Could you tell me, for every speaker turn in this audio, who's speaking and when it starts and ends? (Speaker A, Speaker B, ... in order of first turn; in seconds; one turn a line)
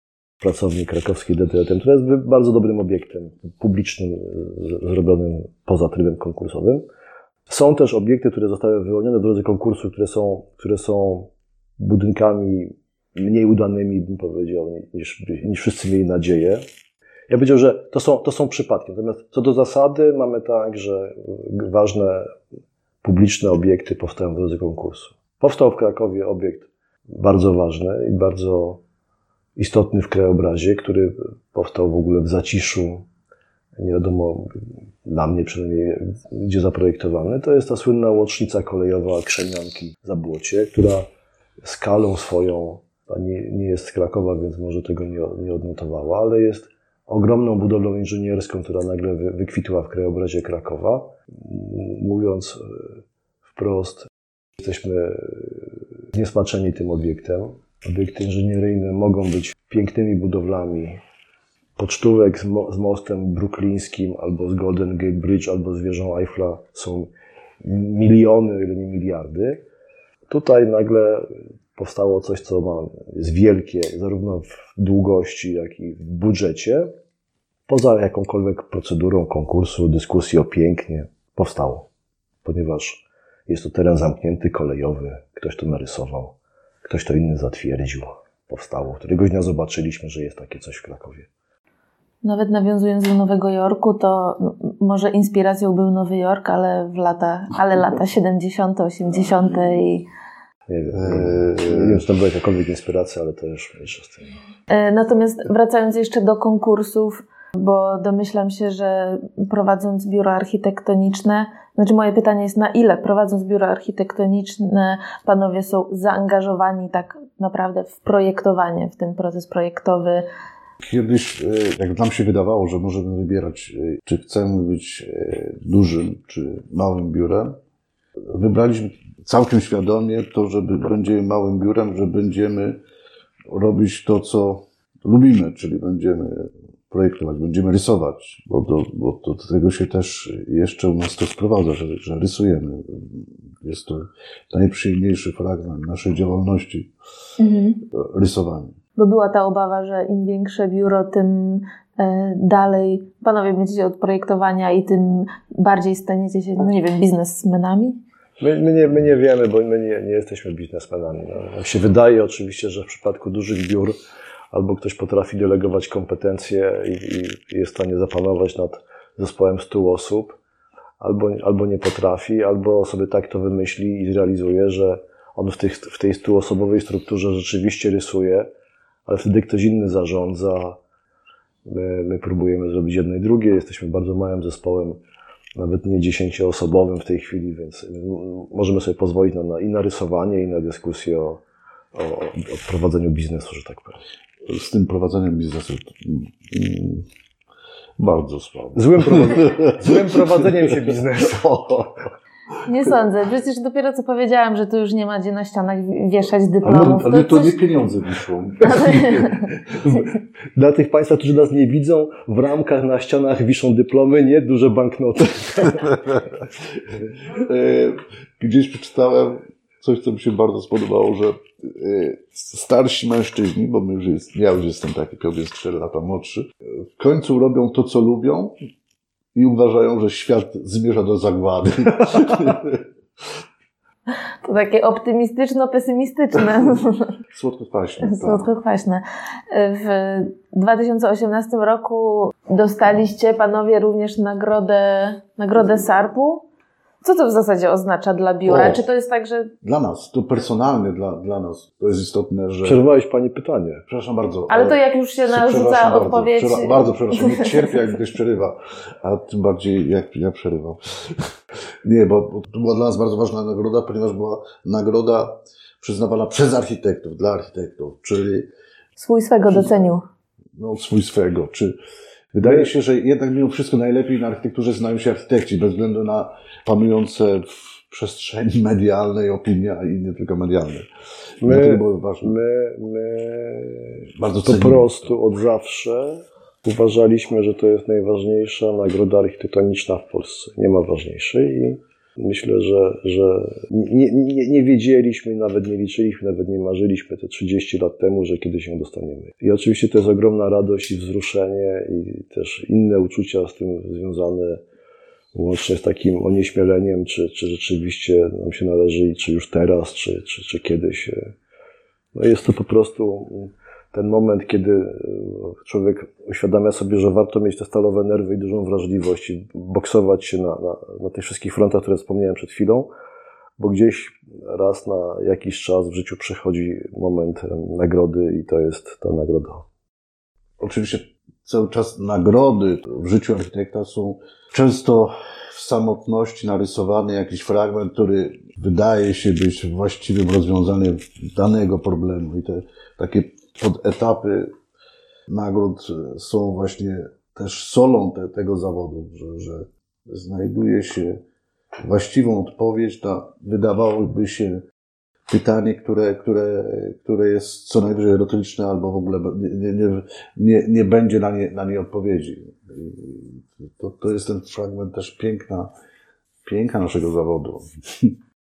Speaker A: 0.4-6.8
Speaker A: 7.5-16.6
Speaker A: 17.3-22.3
Speaker A: 23.0-28.8
Speaker A: 29.6-33.0
Speaker A: 33.8-41.0
Speaker A: 41.6-52.9
Speaker A: 53.5-54.1
Speaker A: 54.6-61.0
Speaker A: 61.8-67.1
Speaker A: 67.6-69.6
Speaker A: 70.3-76.9
Speaker A: 77.7-81.9
Speaker A: 82.4-91.3
Speaker B: 92.2-100.1
Speaker A: 100.7-104.4
Speaker C: 100.9-102.0
Speaker B: 104.7-120.2
Speaker C: 120.8-127.6
Speaker C: 128.3-132.8
Speaker C: 133.5-146.9
Speaker B: 147.4-147.8
Speaker C: 147.9-148.8
Speaker B: 149.0-157.9
Speaker A: 158.4-163.9
Speaker A: 164.5-170.4
Speaker A: 171.0-178.5
Speaker A: 179.1-180.8
Speaker A: 181.7-185.0
Speaker A: 185.6-191.4
Speaker A: 191.9-194.0
Speaker C: 194.5-197.1
Speaker C: 198.0-200.7
Speaker A: 198.7-202.1
Speaker B: 202.7-207.6
Speaker C: 206.6-210.1
Speaker B: 208.6-209.4
Speaker A: 210.6-216.2
Speaker C: 217.2-228.5
Speaker C: 229.3-232.8
Speaker B: 234.4-237.1
Speaker C: 237.3-238.5
Speaker B: 238.0-246.4
Speaker B: 247.0-249.5
Speaker C: 248.4-248.8
Speaker C: 249.6-252.8
Speaker A: 252.6-253.8
Speaker C: 253.9-261.2
Speaker B: 254.5-257.7
Speaker C: 261.8-268.5
Speaker B: 269.0-270.0
Speaker C: 270.6-271.7
Speaker C: 272.3-280.8
Speaker A: 272.4-272.7
Speaker C: 281.4-282.4
Speaker A: 281.4-304.6
Speaker C: 284.2-284.9
Speaker A: 305.3-311.3
Speaker A: 312.1-322.9
Speaker A: 323.6-329.6
Speaker C: 330.6-344.5
Speaker C: 345.3-351.2
Speaker C: 351.8-354.6
Speaker C: 355.3-365.7
Speaker C: 366.4-368.1